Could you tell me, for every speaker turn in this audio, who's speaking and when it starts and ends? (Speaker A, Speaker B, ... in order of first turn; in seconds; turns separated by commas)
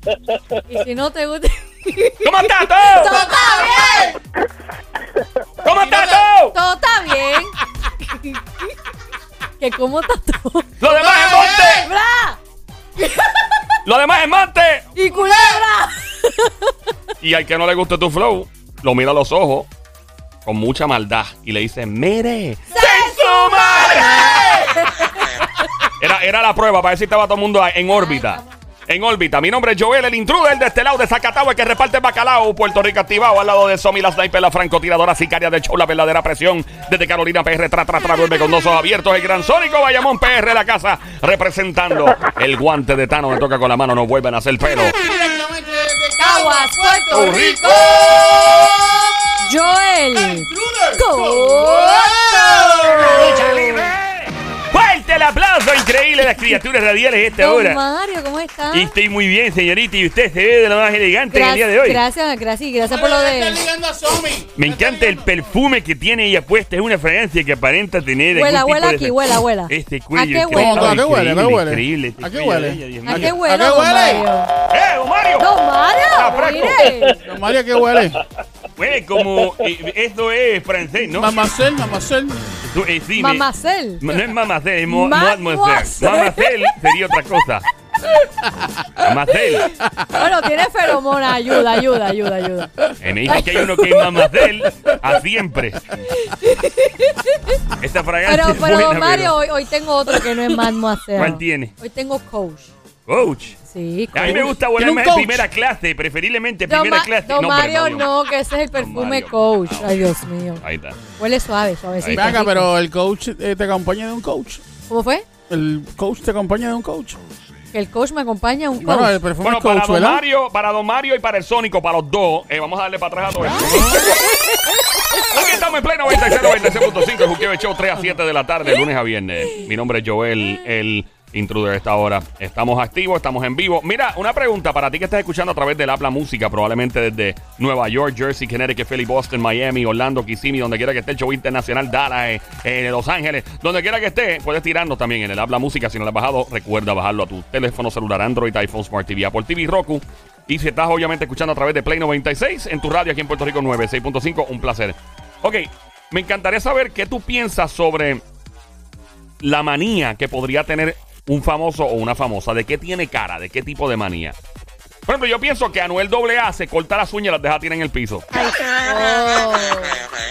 Speaker A: 0.7-4.1, Speaker B: 2.2-3.3, Speaker C: 3.0-4.2, Speaker B: 5.6-6.6, Speaker C: 5.7-6.3, Speaker A: 6.5-8.8, Speaker A: 9.6-10.9, Speaker B: 10.8-11.9, Speaker C: 10.8-11.9, Speaker A: 11.4-12.4, Speaker A: 13.0-13.3, Speaker B: 13.8-14.9, Speaker A: 14.9-16.7, Speaker C: 15.1-15.6, Speaker B: 17.2-19.7, Speaker B: 20.4-24.7, Speaker A: 22.7-25.2, Speaker C: 24.1-24.7, Speaker B: 26.0-45.0, Speaker A: 27.9-28.5, Speaker C: 44.9-49.1, Speaker A: 46.2-47.4, Speaker B: 47.1-48.8, Speaker A: 49.4-52.2, Speaker C: 50.1-54.0, Speaker A: 52.8-53.9, Speaker B: 52.9-53.8, Speaker B: 54.7-57.8, Speaker A: 57.4-58.9, Speaker B: 58.7-62.0, Speaker A: 61.3-63.6, Speaker C: 62.9-65.5, Speaker B: 64.5-73.4, Speaker A: 68.3-71.0, Speaker C: 70.5-74.3, Speaker A: 73.0-74.5, Speaker B: 74.7-75.5, Speaker A: 75.4-77.2, Speaker B: 76.1-76.9, Speaker C: 77.2-78.2, Speaker B: 78.8-81.4, Speaker C: 81.1-82.6, Speaker B: 82.6-83.5, Speaker A: 83.2-84.1, Speaker B: 84.0-87.7, Speaker A: 84.9-86.7, Speaker C: 88.4-89.1, Speaker B: 89.0-89.7, Speaker C: 89.8-90.3, Speaker A: 90.1-93.6, Speaker C: 91.5-92.1, Speaker C: 92.6-95.2, Speaker B: 93.0-95.8, Speaker A: 96.0-97.6, Speaker B: 97.8-99.4, Speaker A: 98.3-102.7, Speaker B: 101.2-101.7, Speaker B: 103.1-103.6, Speaker A: 103.7-104.5, Speaker B: 104.1-108.1, Speaker C: 104.2-105.5, Speaker A: 106.7-110.6, Speaker B: 108.8-109.9, Speaker B: 110.6-111.0, Speaker A: 111.2-112.7, Speaker B: 112.0-112.4, Speaker C: 112.1-114.6, Speaker A: 114.9-115.3, Speaker C: 115.5-117.2, Speaker A: 117.7-119.2, Speaker C: 118.8-120.2, Speaker B: 119.4-124.3, Speaker A: 124.0-125.2, Speaker B: 125.2-158.2, Speaker B: 159.4-164.4, Speaker B: 165.1-168.3, Speaker A: 168.3-170.0